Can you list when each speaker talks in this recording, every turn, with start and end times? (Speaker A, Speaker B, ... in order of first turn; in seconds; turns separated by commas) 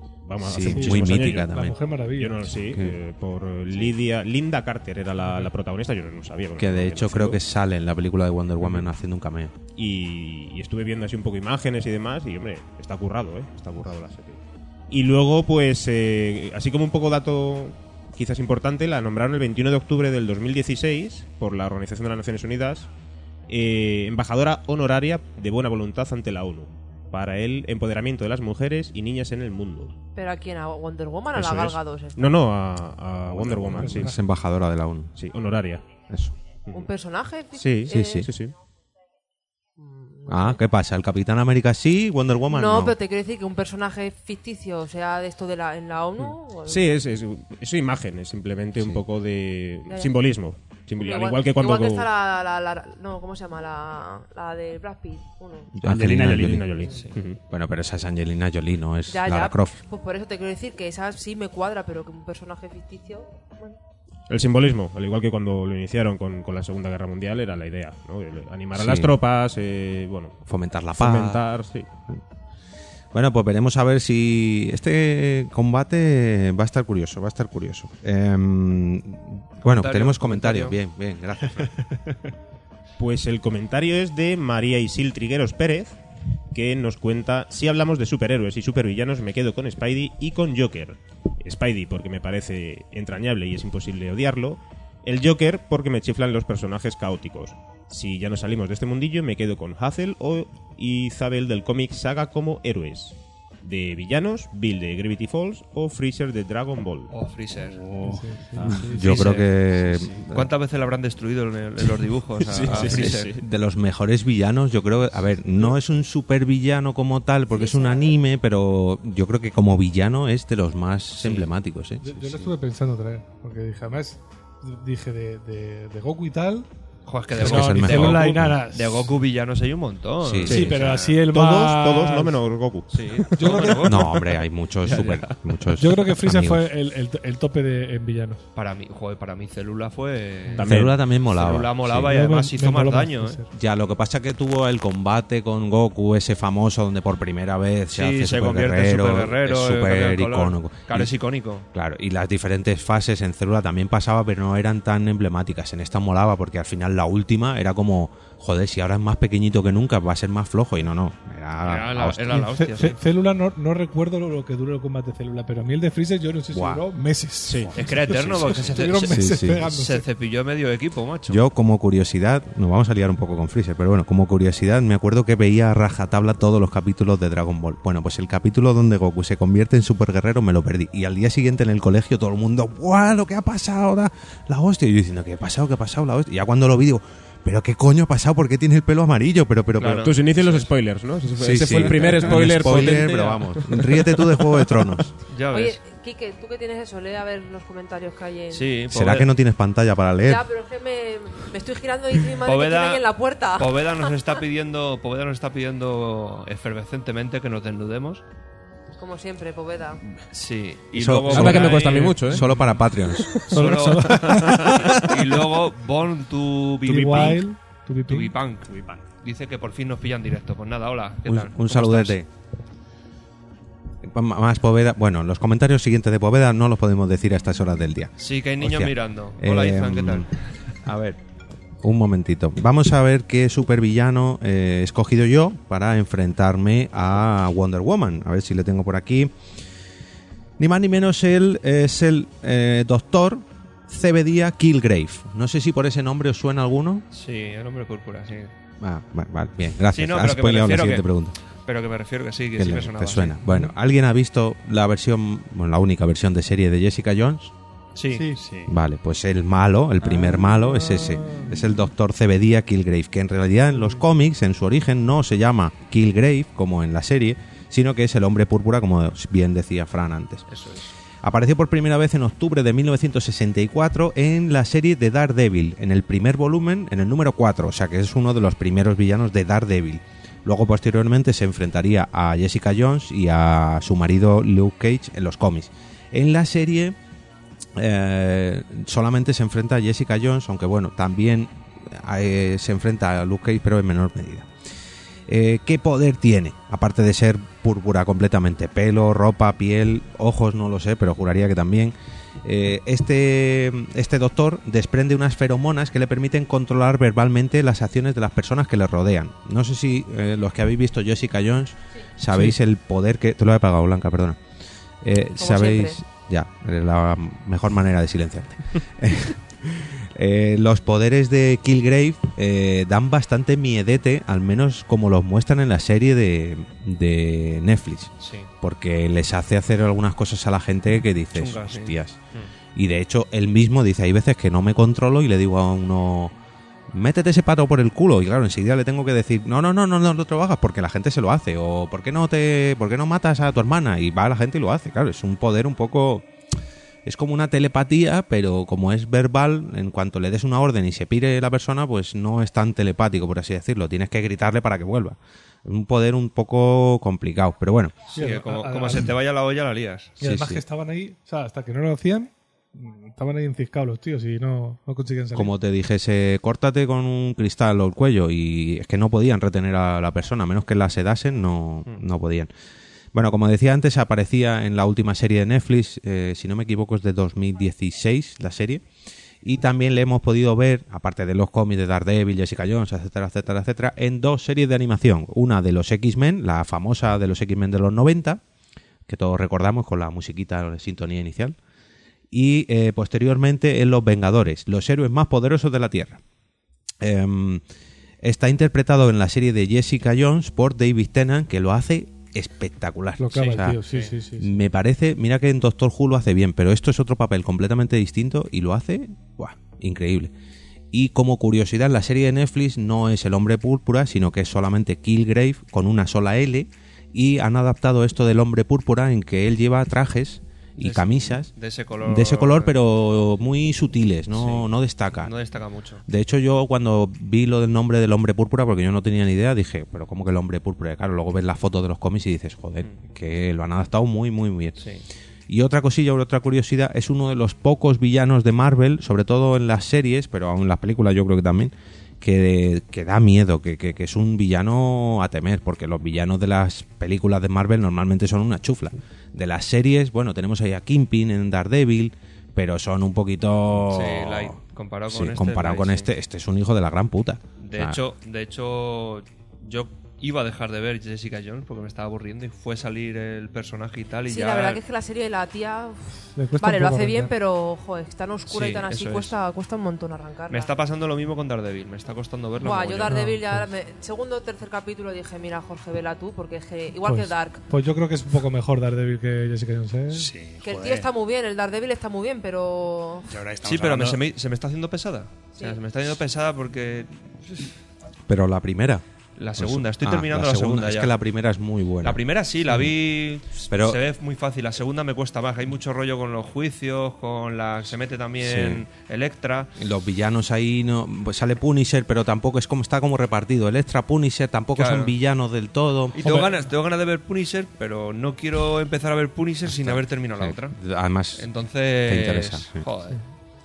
Speaker A: 0.2-1.6, Speaker B: 0.4-1.8, Speaker C: 0.6-2.7, Speaker A: 2.1-7.4, Speaker B: 2.7-3.0, Speaker B: 6.6-9.5, Speaker A: 9.8-14.4, Speaker A: 14.9-22.9, Speaker A: 23.5-29.9, Speaker D: 30.1-32.4, Speaker A: 31.4-34.2, Speaker B: 33.4-35.1, Speaker C: 33.7-34.1, Speaker A: 35.2-35.9, Speaker B: 36.1-36.3, Speaker D: 36.7-38.3, Speaker A: 37.5-38.5, Speaker B: 37.9-38.3, Speaker D: 39.8-40.6, Speaker B: 40.3-43.0, Speaker D: 42.5-46.9, Speaker A: 46.2-52.1, Speaker D: 49.9-50.1, Speaker D: 51.0-55.7, Speaker B: 55.8-56.7, Speaker E: 55.8-56.7, Speaker A: 55.9-57.4, Speaker B: 57.5-59.8, Speaker D: 59.1-63.8, Speaker A: 64.3-70.4, Speaker B: 68.8-69.2, Speaker B: 70.5-71.4, Speaker A: 70.9-71.9, Speaker B: 73.1-81.7, Speaker F: 79.6-80.8, Speaker A: 83.0-86.0, Speaker A: 86.5-107.1, Speaker F: 107.1-107.8, Speaker E: 107.5-109.0, Speaker C: 108.0-109.1, Speaker B: 108.7-110.5, Speaker F: 109.0-113.3, Speaker A: 112.5-113.4, Speaker B: 112.8-122.5, Speaker D: 117.5-118.2, Speaker F: 121.2-121.5, Speaker C: 122.0-126.7, Speaker F: 127.1-131.1, Speaker C: 127.3-129.1, Speaker B: 127.4-128.6, Speaker B: 130.2-130.7, Speaker C: 130.5-132.4, Speaker A: 130.5-133.6, Speaker F: 132.9-134.3, Speaker C: 133.4-134.2, Speaker B: 133.8-136.7, Speaker F: 134.8-135.4, Speaker C: 135.8-138.4, Speaker F: 138.6-143.4, Speaker A: 140.6-141.0, Speaker B: 140.6-142.1, Speaker C: 142.0-143.5, Speaker B: 143.5-151.1, Speaker F: 147.9-151.7, Speaker B: 151.7-162.4, Speaker F: 161.6-163.0, Speaker C: 162.3-170.0, Speaker B: 166.5-166.8, Speaker A: 167.4-168.6, Speaker F: 167.8-171.4, Speaker B: 169.1-169.6, Speaker B: 171.3-190.1, Speaker F: 189.8-190.6, Speaker A: 190.0-193.8, Speaker B: 191.4-195.1, Speaker F: 192.7-193.2, Speaker F: 195.3-195.8, Speaker D: 195.5-198.7, Speaker F: 198.5-199.3, Speaker B: 198.9-200.4, Speaker D: 200.2-204.1, Speaker F: 202.4-203.0, Speaker F: 203.6-208.2, Speaker D: 209.0-210.0, Speaker F: 210.3-212.4, Speaker B: 210.9-213.3, Speaker A: 211.3-212.5, Speaker A: 213.3-213.5, Speaker F: 213.5-217.4, Speaker C: 213.5-215.1, Speaker A: 214.2-214.7, Speaker C: 216.8-218.3, Speaker F: 218.1-218.7, Speaker E: 218.7-219.0, Speaker F: 219.2-222.2, Speaker B: 221.3-222.3, Speaker B: 224.0-230.3, Speaker F: 228.2-230.7, Speaker B: 230.8-231.2, Speaker B: 231.8-239.3, Speaker B: 240.6-247.1, Speaker F: 247.1-248.5, Speaker B: 248.8-251.3, Speaker F: 249.9-251.1, Speaker F: 251.7-253.4, Speaker B: 252.6-257.5, Speaker C: 253.5-253.7, Speaker F: 257.9-258.3, Speaker C: 258.1-258.4, Speaker E: 258.4-258.8, Speaker B: 258.7-270.5, Speaker C: 260.9-261.5, Speaker F: 270.5-270.9, Speaker B: 271.2-287.0, Speaker B: 287.8-294.5, Speaker B: 295.3-314.4, Speaker B: 315.0-332.2, Speaker D: 315.4-316.0, Speaker F: 328.2-328.5, Speaker F: 331.4-332.5, Speaker B: 332.8-336.3, Speaker B: 336.9-346.3, Speaker B: 347.1-358.0, Speaker C: 358.1-359.1, Speaker F: 358.1-360.1, Speaker C: 360.2-365.5, Speaker B: 360.2-360.6, Speaker B: 365.3-372.5, Speaker B: 373.1-378.8, Speaker B: 379.4-388.4, Speaker B: 389.1-391.6, Speaker B: 392.3-396.2, Speaker B: 397.0-397.6, Speaker B: 398.2-403.8, Speaker C: 403.2-404.5, Speaker B: 404.4-410.3, Speaker B: 410.9-421.5, Speaker F: 420.8-422.8, Speaker B: 422.0-425.3, Speaker F: 424.3-424.7, Speaker F: 425.2-426.0, Speaker B: 426.1-434.8, Speaker B: 435.5-454.6, Speaker F: 453.9-456.1, Speaker B: 455.1-458.0, Speaker F: 457.6-464.8, Speaker D: 464.3-470.7, Speaker C: 466.4-467.3, Speaker F: 468.5-469.4, Speaker F: 470.5-473.3, Speaker D: 472.6-477.6, Speaker C: 473.1-473.6, Speaker C: 477.0-480.3, Speaker E: 480.1-481.1, Speaker D: 480.6-483.3, Speaker E: 483.3-484.2, Speaker F: 483.6-487.6, Speaker B: 488.3-489.0, Speaker F: 489.4-491.1, Speaker B: 489.6-492.2, Speaker F: 492.0-499.7, Speaker B: 493.7-494.0, Speaker B: 498.4-498.8, Speaker B: 499.8-506.2, Speaker F: 504.8-505.1, Speaker F: 506.2-510.8, Speaker C: 506.2-506.5, Speaker B: 509.7-511.5, Speaker F: 511.4-513.2, Speaker B: 512.0-512.9